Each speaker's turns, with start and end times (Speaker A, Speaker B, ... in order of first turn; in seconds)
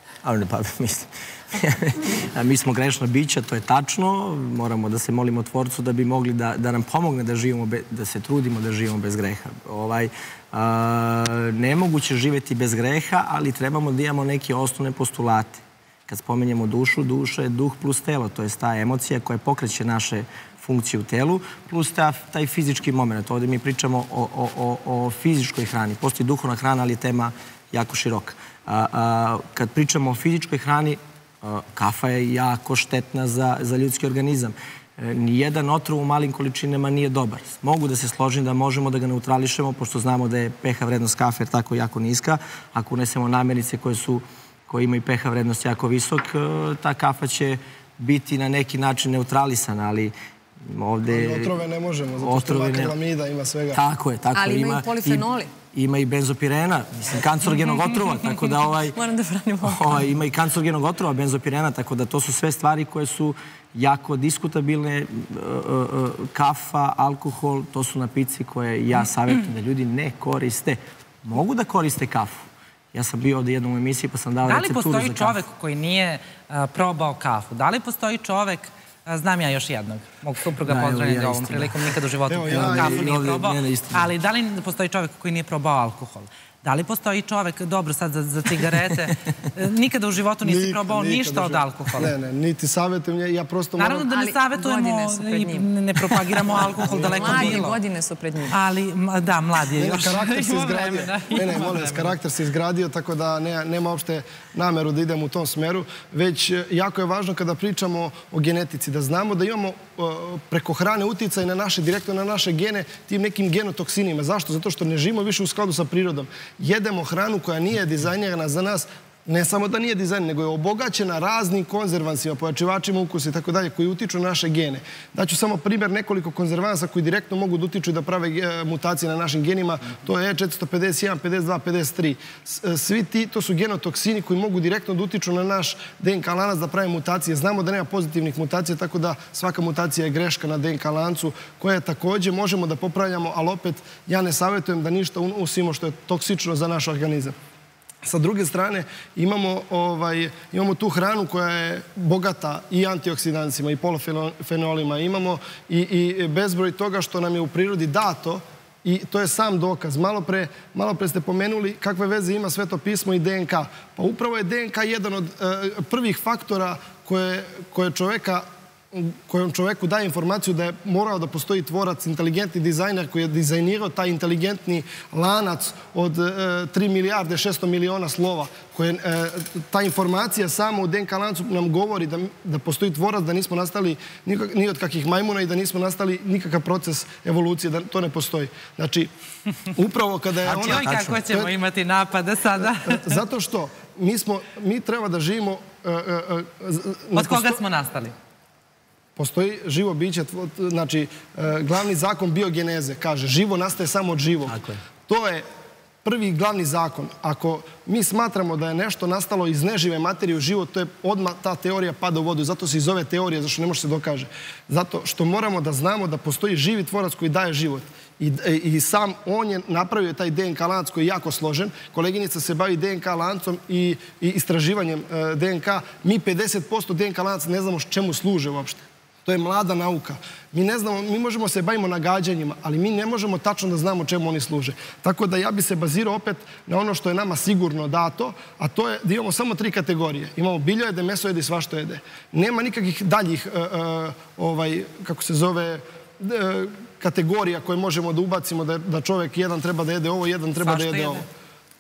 Speaker A: 0.2-51.6, 52.2-53.0, 53.7-59.0, 59.6-75.4, 80.7-81.9, 82.5-84.1, 190.4-191.2, 204.5-204.8
Speaker B: 51.1-53.8, 82.3-83.1, 90.5-94.1, 96.9-97.6, 99.8-147.4, 148.0-189.1, 189.7-191.5, 192.6-197.6, 199.2-205.4, 206.0-251.2
Speaker C: 54.4-55.5, 59.0-60.1, 94.1-95.7, 97.0-98.5
Speaker D: 74.5-92.1, 93.8-97.8, 98.5-102.1, 190.6-193.2, 197.2-198.2, 250.6-251.2